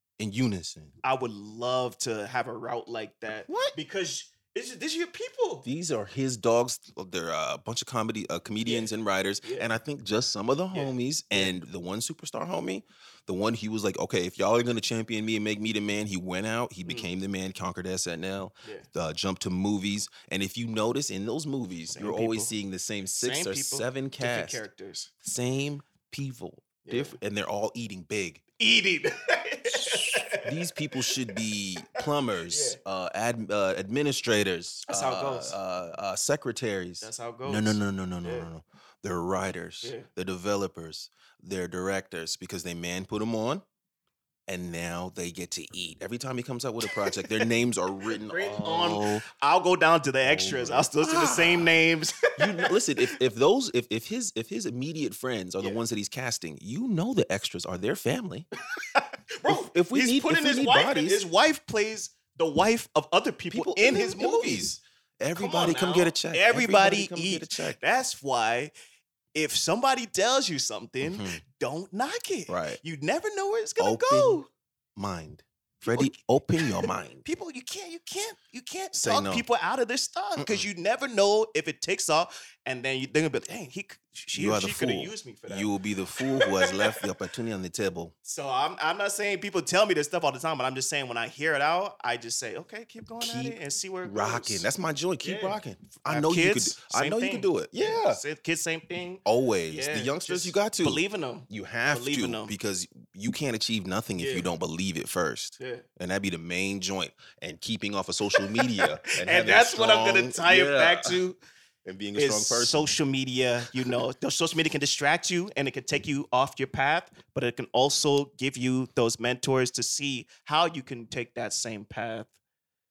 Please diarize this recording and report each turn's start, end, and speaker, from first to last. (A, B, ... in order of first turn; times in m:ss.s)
0:00.2-0:00.9 A
0:01.0-0:05.6 B
0:03.5-0:03.8 A
0:05.6-0:24.6 A
0:08.6-0:09.7 B
0:10.7-0:11.6 B
0:21.9-0:22.5 B
0:23.2-0:25.1 B
0:25.2-0:28.4 A
0:26.8-0:27.2 B
0:28.6-0:31.4 B
0:29.7-0:43.6 A
0:31.9-0:32.8 B
0:34.9-0:35.6 B
0:37.0-0:38.5 B
0:44.5-0:49.2 A
0:46.9-0:47.4 B
0:48.0-0:53.1 B
0:50.2-0:51.8 A
0:52.4-0:58.5 A
0:58.7-1:04.7 B
0:59.5-1:01.2 A
1:03.5-1:07.8 A
1:05.4-1:08.7 B
1:09.3-1:14.5 B
1:11.0-1:11.4 A
1:12.5-1:12.8 A
1:13.8-1:14.4 A
1:15.0-1:17.2 A
1:15.8-1:27.1 B
1:18.9-1:19.4 A
1:20.4-1:20.7 A
1:24.3-1:28.1 A
1:28.2-1:34.6 B
1:33.2-1:38.2 A
1:35.2-1:42.5 B
1:39.2-1:51.2 A
1:44.2-1:44.5 B
1:45.6-1:45.8 B
1:48.3-1:51.4 B
1:51.8-1:52.9 A
1:52.2-2:02.3 B